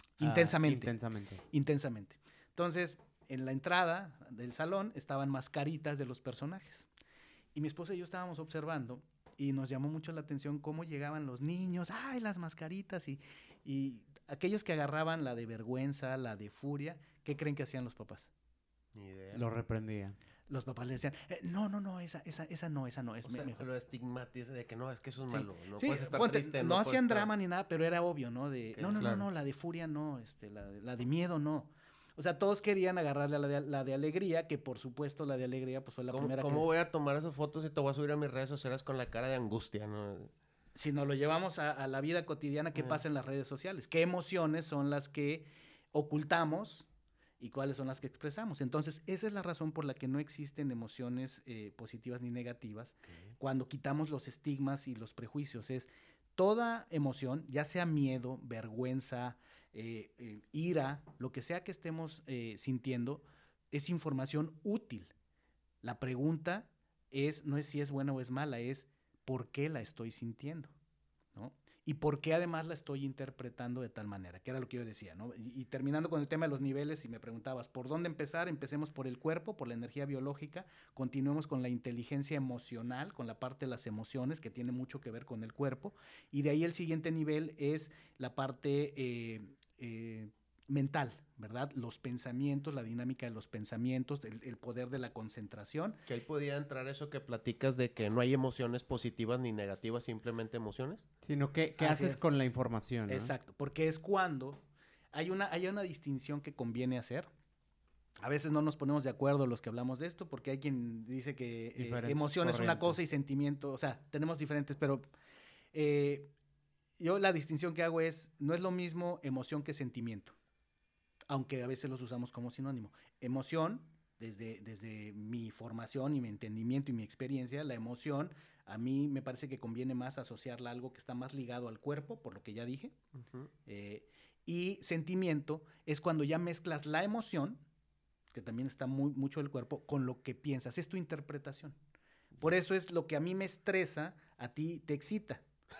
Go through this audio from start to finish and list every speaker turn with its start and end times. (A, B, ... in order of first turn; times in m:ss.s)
0:00.2-0:00.9 A
0:00.2-0:01.4 B
0:01.5-0:06.9 A
0:07.5-0:18.3 A
0:18.9-0:19.4 C
0:19.3-0:20.2 B
0:20.5-0:23.6 A
0:23.2-0:27.3 C
0:25.3-0:36.7 A
0:28.8-0:29.2 C
0:36.1-0:40.3 C
0:40.7-0:46.8 A
0:47.4-1:05.1 A
1:05.8-1:10.7 A
1:11.3-1:36.0 A
1:36.1-1:41.0 C
1:41.2-1:43.3 B
1:41.8-1:42.2 A
1:43.1-1:44.6 A
1:45.1-1:47.3 A
1:48.2-1:55.0 A
1:51.8-1:53.0 B
1:55.7-1:56.3 A
1:57.0-2:00.4 A
2:01.3-2:12.9 A
2:13.6-2:17.6 A
2:18.3-2:21.8 A
2:22.4-2:25.4 A